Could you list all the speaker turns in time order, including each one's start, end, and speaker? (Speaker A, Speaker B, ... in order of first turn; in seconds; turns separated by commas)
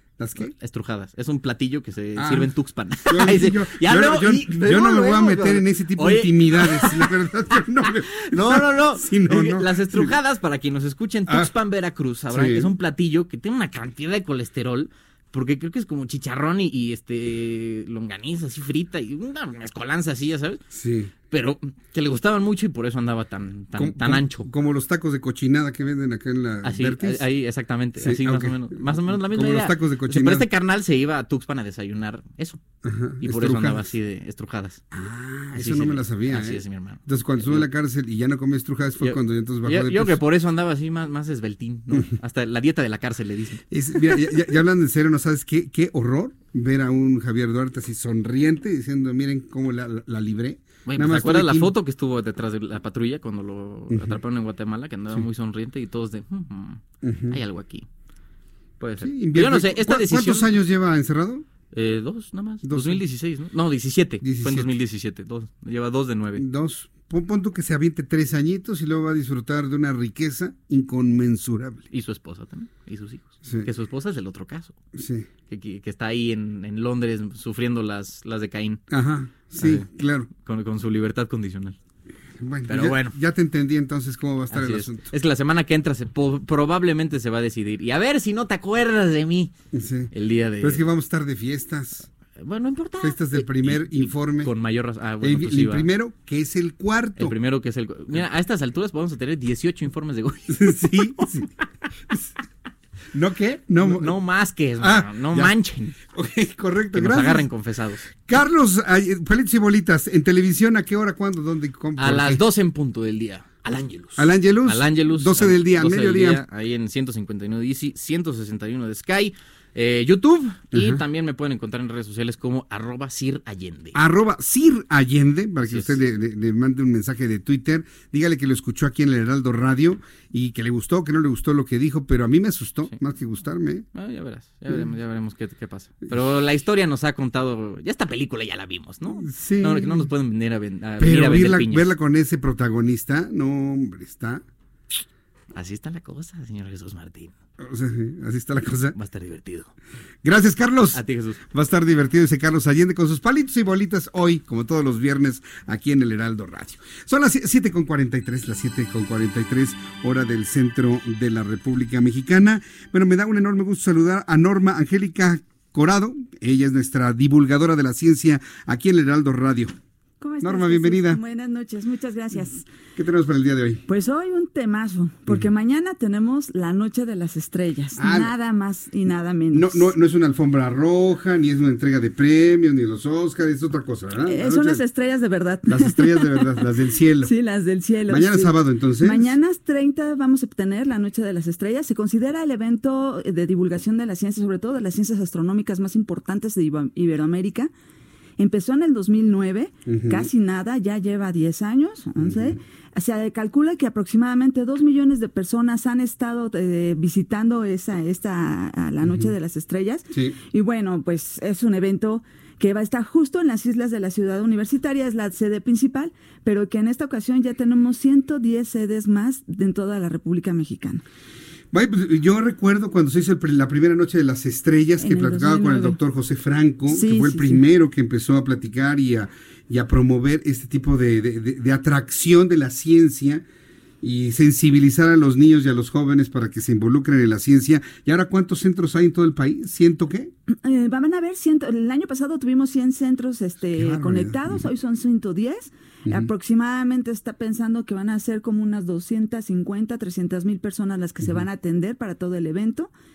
Speaker A: 0.2-0.5, Speaker B: 0.4-20.6, Speaker A: 2.2-2.5, Speaker A: 3.1-10.2, Speaker A: 12.3-12.7, Speaker A: 20.7-21.1, Speaker B: 21.1-24.5, Speaker A: 23.8-27.2, Speaker B: 26.6-32.6, Speaker A: 28.0-30.5, Speaker A: 32.8-33.9, Speaker B: 33.2-34.8, Speaker A: 34.9-40.2, Speaker B: 35.5-37.7, Speaker B: 39.0-44.2, Speaker A: 43.7-51.7, Speaker B: 50.9-57.9, Speaker A: 53.9-54.2, Speaker A: 57.0-57.4, Speaker B: 58.8-60.5, Speaker A: 59.0-61.5, Speaker B: 61.7-66.5, Speaker A: 62.6-63.0, Speaker A: 64.2-64.7, Speaker A: 66.4-71.8, Speaker B: 71.9-74.8, Speaker A: 73.4-73.7, Speaker A: 75.0-75.3, Speaker B: 75.5-78.8, Speaker A: 78.9-80.3, Speaker B: 79.5-79.9, Speaker B: 80.4-81.8, Speaker A: 82.4-85.1, Speaker B: 82.7-83.2, Speaker B: 84.5-89.5, Speaker A: 89.7-92.1, Speaker B: 90.1-90.9, Speaker B: 92.3-95.9, Speaker A: 93.0-94.5, Speaker A: 95.2-97.4, Speaker B: 97.2-101.3, Speaker A: 100.5-101.5, Speaker A: 103.1-104.2, Speaker B: 103.8-106.0, Speaker A: 104.8-105.6, Speaker A: 106.1-107.5, Speaker B: 107.0-108.0, Speaker A: 108.1-112.5, Speaker B: 112.0-124.0, Speaker A: 114.2-116.4, Speaker A: 120.7-121.0, Speaker A: 123.9-133.9, Speaker B: 125.6-126.0, Speaker B: 133.9-141.9, Speaker A: 139.1-140.1, Speaker A: 141.0-144.4, Speaker B: 145.5-147.4, Speaker A: 147.6-149.0, Speaker B: 148.9-149.7, Speaker A: 150.2-169.8, Speaker B: 150.9-151.4, Speaker C: 170.2-172.7, Speaker A: 170.4-171.2, Speaker A: 173.0-173.8, Speaker C: 173.9-179.9, Speaker A: 178.0-178.3, Speaker A: 179.5-184.8, Speaker C: 184.2-186.6, Speaker A: 185.7-187.3, Speaker C: 187.2-197.7, Speaker A: 188.1-189.4, Speaker C: 198.4-221.0, Speaker A: 199.9-200.3, Speaker A: 202.2-202.6, Speaker A: 209.0-209.3, Speaker A: 221.7-233.4, Speaker C: 225.0-226.0, Speaker C: 226.9-227.6, Speaker A: 234.0-240.3, Speaker C: 240.5-252.9, Speaker A: 243.8-244.7